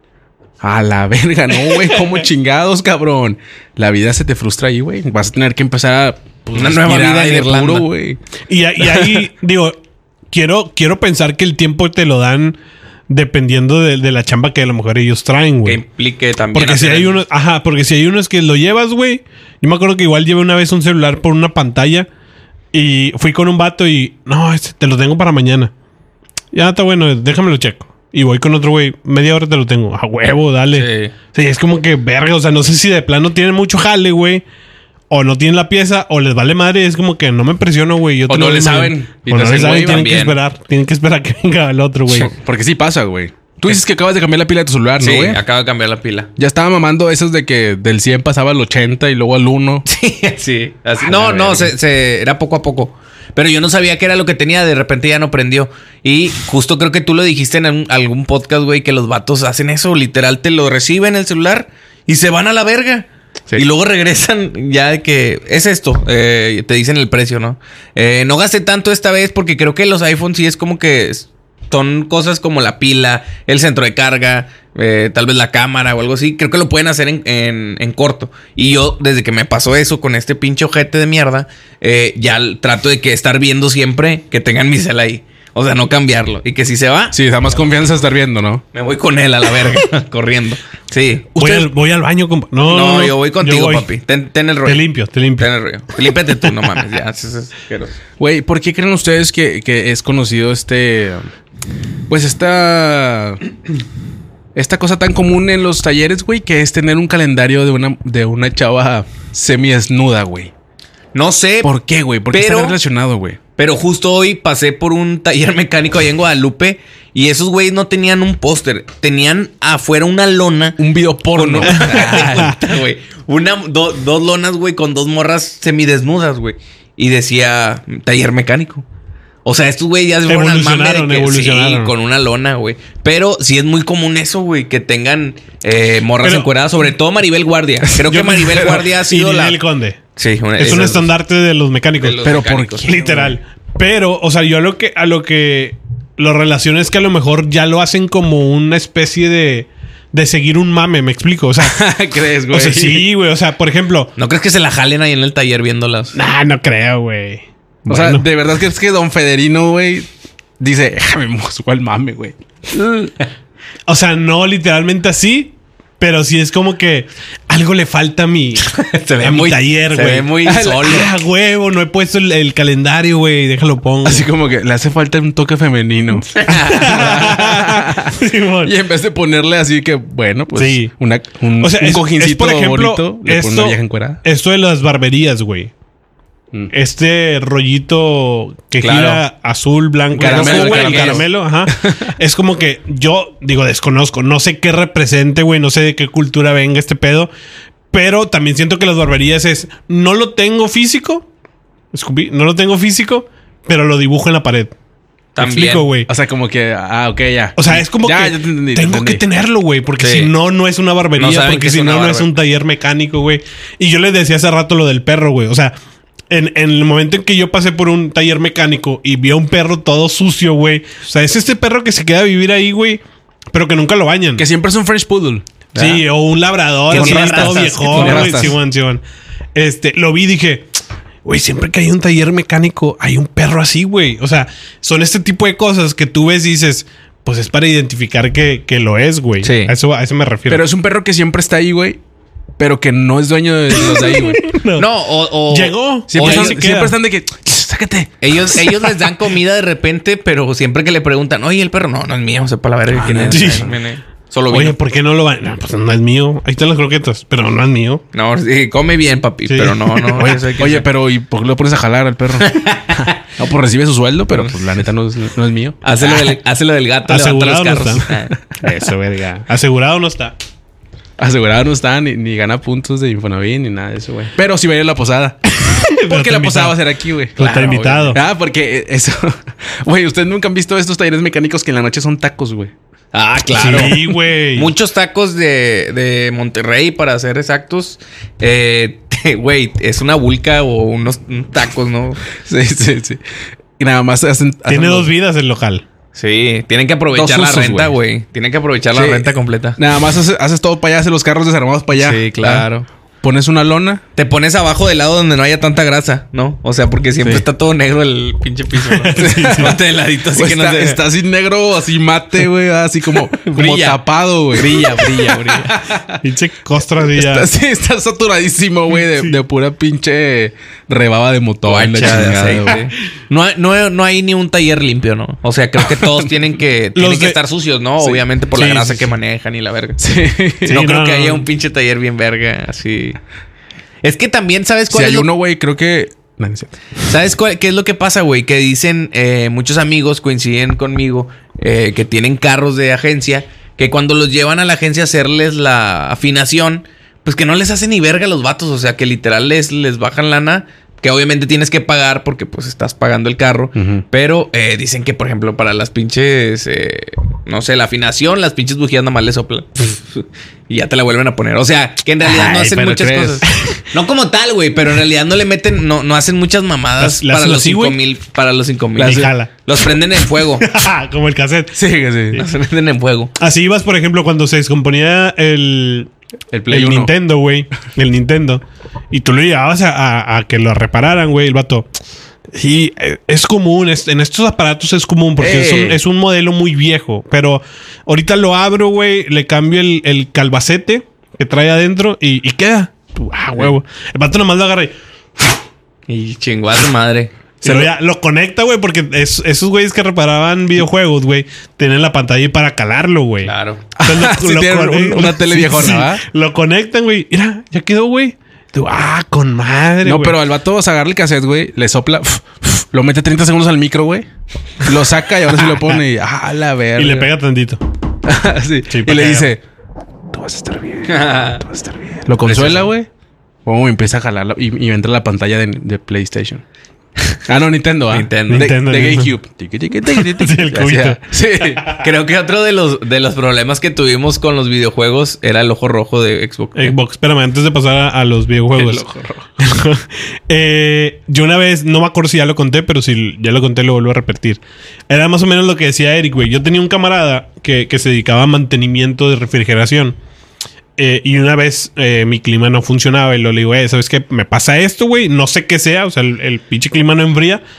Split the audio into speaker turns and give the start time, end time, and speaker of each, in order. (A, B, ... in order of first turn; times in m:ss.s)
0:00.6-0:08.2 A
0:06.6-0:07.9 B
0:08.5-0:09.8 C
0:08.8-0:09.2 A
0:10.3-0:15.8 C
0:15.6-0:17.2 B
0:16.5-0:22.1 C
0:22.7-0:25.7 C
0:26.5-0:34.4 C
0:30.7-0:31.1 B
0:35.1-0:42.3 C
0:38.3-0:40.1 A
0:39.5-0:40.4 B
0:42.1-0:45.4 A
0:45.0-0:46.3 B
0:46.4-0:49.9 A
0:49.9-1:27.2 B
0:51.0-0:51.7 A
1:27.1-1:28.6 A
1:28.7-1:31.4 B
1:31.4-1:33.9 C
1:31.4-1:31.7 A
1:32.7-1:34.9 B
1:34.6-1:35.5 C
1:35.4-1:38.0 B
1:38.2-1:41.3 A
1:42.1-1:43.4 A
1:44.6-1:50.5 A
1:51.1-1:51.7 B
1:51.6-1:53.4 A
1:52.3-1:52.8 B
1:53.6-2:00.8 B
2:00.8-2:02.6 A
2:01.4-2:08.8 B
2:01.7-2:02.6 C
2:09.4-2:19.6 B
2:10.3-2:11.9 C
2:16.2-2:16.5 C
2:18.0-2:20.0 C
2:20.2-2:21.1 B
2:20.6-2:22.2 C
2:22.0-2:23.1 B
2:22.2-2:23.4 A
2:22.8-2:31.8 C
2:31.6-2:33.1 A
2:32.5-2:34.1 C
2:34.2-2:36.2 B
2:36.1-2:38.2 C
2:37.9-2:40.1 A
2:40.6-2:43.1 A
2:43.9-2:48.7 C
2:48.7-2:51.1 B
2:49.2-2:54.3 C
2:50.4-2:51.1 A
2:54.0-3:04.2 A
2:56.3-2:57.3 B
2:56.5-2:58.7 C
3:00.5-3:00.9 C
3:01.6-3:05.7 C
3:06.7-3:17.3 C
3:08.8-3:09.2 B
3:10.2-3:12.0 A
3:10.2-3:11.2 B
3:17.9-3:21.3 C
3:21.9-3:24.7 C
3:25.4-3:25.9 B
3:25.4-3:26.1 C
3:26.1-3:29.2 A
3:27.6-3:35.7 C
3:30.0-3:30.3 B
3:31.2-3:32.3 B
3:36.3-3:43.0 C
3:43.5-3:44.5 C
3:44.4-3:45.4 A
3:45.8-3:46.0 B
3:45.8-3:49.0 C
3:46.9-3:48.5 B
3:46.9-3:48.6 A
3:49.6-3:50.7 C
3:51.2-4:00.6 C
3:59.4-3:59.7 B
4:00.5-4:02.0 A
4:02.6-4:04.4 A
4:03.8-4:04.9 C
4:04.8-4:06.6 B
4:05.5-4:06.9 C
4:06.1-4:08.7 A
4:08.2-4:14.8 B
4:12.9-4:13.8 A
4:13.3-4:13.7 C
4:14.5-4:18.0 C
4:18.1-4:20.9 B
4:19.5-4:20.3 C
4:20.1-4:26.4 A
4:22.4-4:23.2 B
4:24.3-4:24.6 B
4:25.8-4:28.4 B
4:27.1-4:30.4 C
4:31.2-4:35.4 A
4:35.6-4:36.8 C
4:36.1-4:42.7 A
4:37.4-4:38.2 C
4:37.4-4:38.2 B
4:43.1-4:52.2 B
4:43.5-4:44.7 C
4:52.4-4:53.2 A
4:53.8-4:55.1 A
4:54.7-4:55.8 C
4:56.2-4:59.8 B
4:57.1-4:58.0 A
4:58.9-5:02.7 A
5:02.0-5:02.9 B
5:03.2-5:04.0 A
5:04.2-5:11.0 B
5:07.2-5:07.5 A
5:09.0-5:09.8 C
5:09.1-5:09.8 A
5:10.3-5:16.2 A
5:13.3-5:15.8 B
5:16.2-5:17.5 C
5:17.1-5:22.9 A
5:21.7-5:30.0 B
5:27.0-5:27.4 C
5:28.5-5:29.1 C
5:30.0-5:30.8 A
5:30.7-5:31.5 C
5:30.7-5:33.2 B
5:34.0-5:35.3 B
5:34.9-5:36.8 A
5:37.1-6:10.7 B
5:53.8-5:54.0 A
6:02.2-6:02.8 C
6:02.5-6:03.4 A
6:03.4-6:03.8 C
6:07.0-6:08.0 C
6:09.0-6:09.3 A
6:09.0-6:09.5 C
6:10.6-6:11.8 C
6:11.8-6:12.4 A
6:12.4-6:13.3 B
6:13.4-6:16.1 C
6:16.5-6:17.1 A
6:16.7-6:21.9 C
6:22.5-6:34.9 C
6:25.4-6:26.0 A
6:36.1-6:37.3 B
6:37.6-6:50.4 C
6:37.6-6:37.9 A
6:43.4-6:43.9 B
6:44.0-6:46.2 A
6:50.0-6:54.3 A
6:54.8-6:57.3 A
6:57.0-6:57.8 C
6:58.2-6:59.6 A
6:58.9-6:59.5 C
7:00.3-7:03.1 A
7:01.1-7:01.6 B
7:02.4-7:02.9 B
7:03.6-7:06.6 A
7:07.5-7:11.9 A
7:08.1-7:08.7 B
7:08.5-7:09.3 C
7:10.1-7:11.2 C
7:11.8-7:17.0 B
7:16.8-7:19.0 C
7:18.8-7:19.4 A
7:19.6-7:30.2 C
7:31.0-7:37.6 C